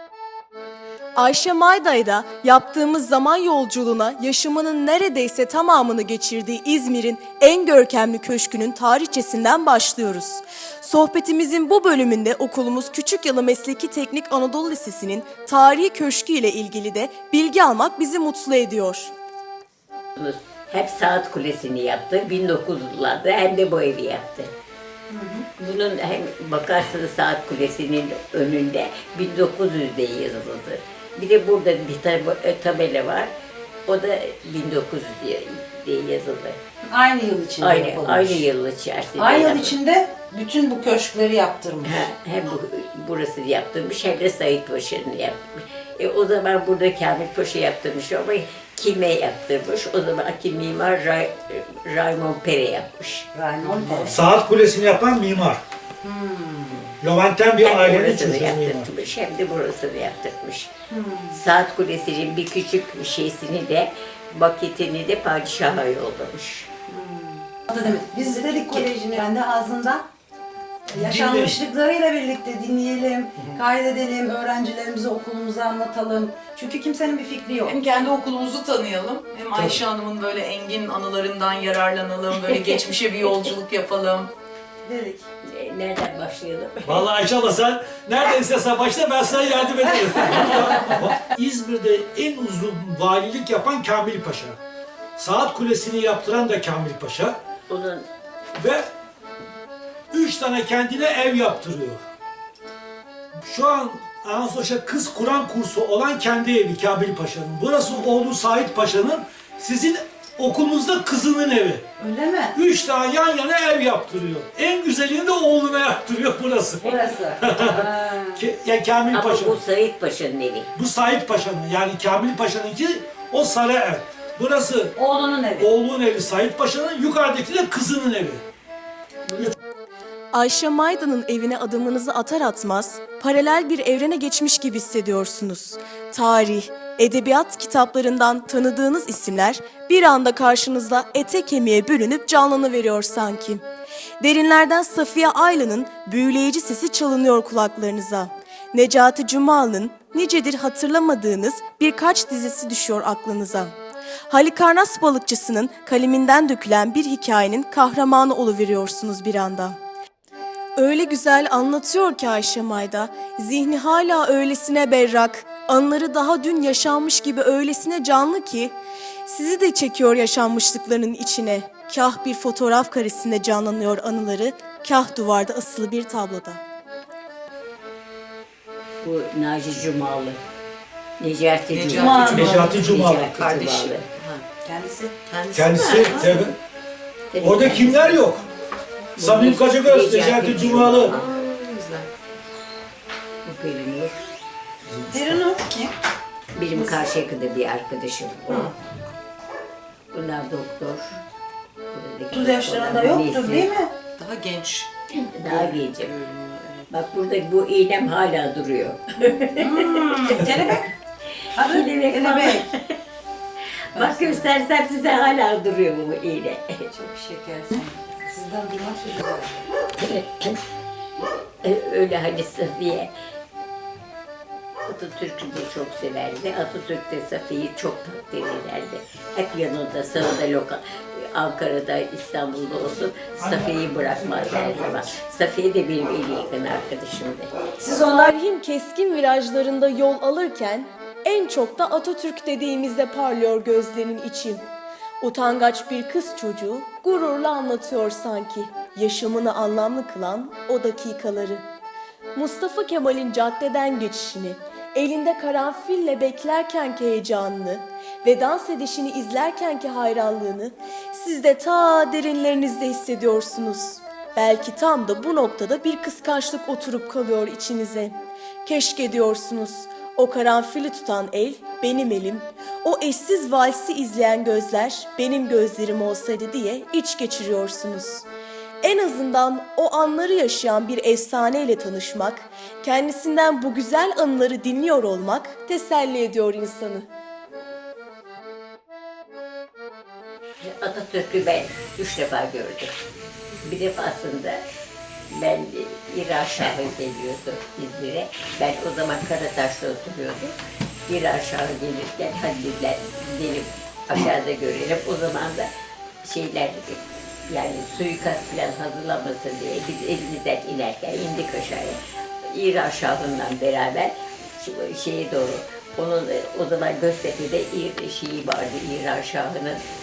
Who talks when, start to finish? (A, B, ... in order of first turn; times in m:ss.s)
0:01.2-0:19.1 A
0:20.2-0:24.5 B
0:25.1-0:25.4 C
0:25.6-0:33.3 B
0:33.9-0:36.6 B
0:36.9-0:38.5 C
0:37.6-0:39.8 B
0:39.2-0:42.1 C
0:41.8-0:54.3 B
0:53.3-0:54.2 C
0:54.1-0:55.6 D
0:56.0-0:56.9 C
0:57.0-0:58.9 D
0:57.6-1:00.7 B
1:00.9-1:01.4 C
1:01.3-1:06.7 B
1:06.9-1:10.0 C
1:08.2-1:08.9 E
1:10.9-1:17.8 C
1:11.0-1:11.6 D
1:17.6-1:24.3 E
1:19.6-1:19.8 D
1:22.5-1:23.5 B
1:24.8-1:25.3 C
1:25.4-1:27.1 B
1:26.9-1:34.6 D
1:35.2-1:37.4 D
1:37.7-1:38.1 B
1:38.6-1:38.8 D
1:40.1-1:42.0 D
1:43.4-1:51.8 D
1:52.0-1:52.6 C
1:52.5-1:59.6 D
1:56.8-1:58.4 C
1:59.1-2:00.7 B
2:00.8-2:05.0 D
2:05.0-2:05.7 C
2:05.6-2:08.4 D
2:10.3-2:23.6 A
2:24.2-2:33.7 A
2:34.3-2:39.8 A
2:40.8-2:48.7 A
2:49.3-2:56.6 A
2:59.0-3:00.4 B
3:01.2-3:04.1 B
3:01.7-3:02.6 E
3:02.0-3:02.7 C
3:02.4-3:03.4 D
3:03.4-3:04.6 E
3:04.6-3:05.1 C
3:05.1-3:06.5 E
3:05.5-3:06.6 D
3:07.3-3:08.2 B
3:07.4-3:08.4 D
3:09.2-3:11.4 B
3:09.2-3:11.2 D
3:11.1-3:12.1 E
3:13.4-3:14.2 B
3:14.9-3:15.4 D
3:15.1-3:15.9 C
3:16.6-3:18.7 B
3:20.1-3:21.2 B
3:21.9-3:23.7 B
3:22.3-3:23.9 C
3:24.2-3:24.9 E
3:25.2-3:26.1 B
3:25.4-3:26.9 E
3:26.9-3:30.6 B
3:29.6-3:30.9 C
3:31.6-3:32.7 C
3:31.6-3:33.0 B
3:33.9-3:36.6 B
3:34.0-3:34.5 E
3:36.9-3:39.6 C
3:40.0-3:40.6 B
3:41.6-3:43.1 B
3:44.8-3:57.5 B
3:53.4-3:55.1 D
3:57.8-3:58.3 C
3:57.9-4:04.6 A
4:05.2-4:11.6 A
4:12.4-4:38.3 A
4:38.8-4:47.1 A
4:50.6-4:52.9 B
4:53.6-4:54.6 B
4:55.3-5:00.5 B
5:01.1-5:05.7 B
5:06.2-5:12.0 B
5:12.5-5:19.8 B